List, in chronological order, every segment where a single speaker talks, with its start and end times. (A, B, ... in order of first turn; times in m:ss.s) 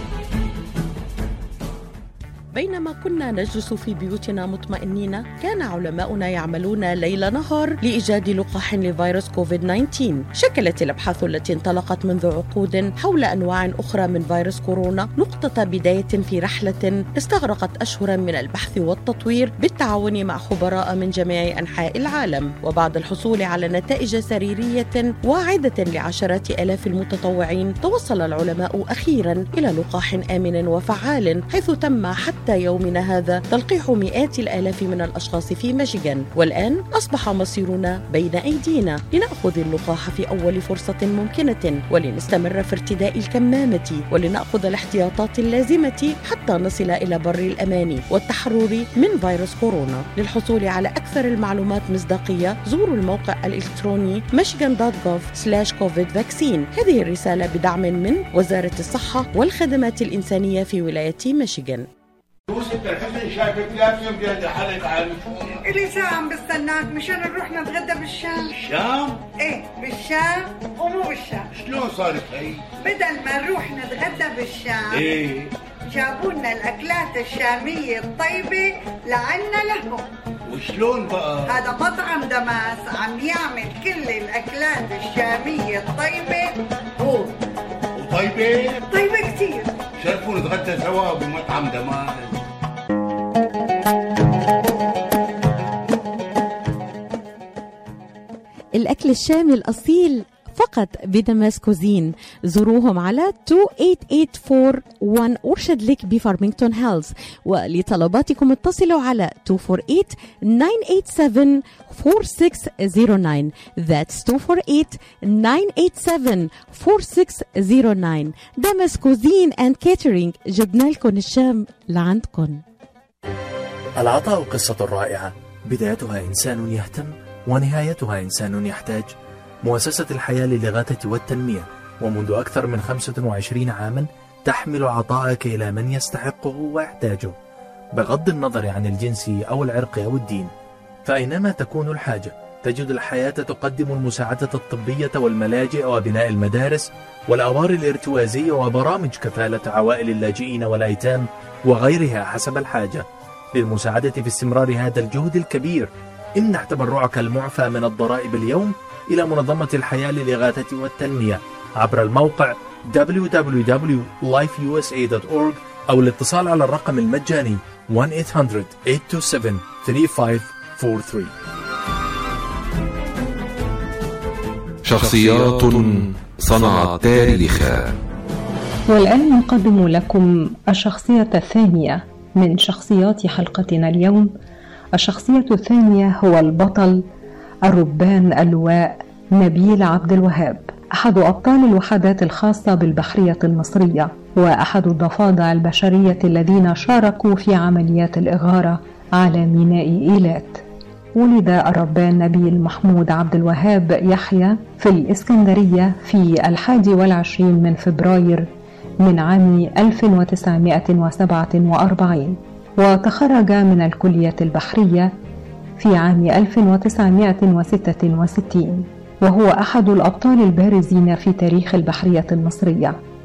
0:02.5-1:01.9 A
1:02.5-1:05.6 B
1:05.6-1:08.5 C
1:08.6-1:09.2 B
1:09.3-1:11.5 C
1:11.5-1:12.7 B
1:12.8-1:15.1 C
1:14.9-1:15.5 B
1:15.9-1:20.1 C
1:20.5-1:21.6 B
1:21.5-1:27.4 C
1:28.0-1:28.8 B
1:28.9-1:29.8 C
1:30.0-1:32.4 B
1:38.8-2:02.6 A
2:04.0-2:09.1 D
2:09.6-2:17.4 D
2:18.0-2:20.5 D
2:21.1-2:51.3 D
2:54.9-2:57.9 E
2:58.9-3:04.3 F
3:05.0-3:07.0 F
3:07.7-3:20.6 F
3:21.2-3:28.5 F
3:29.0-3:35.2 F
3:35.8-3:43.0 F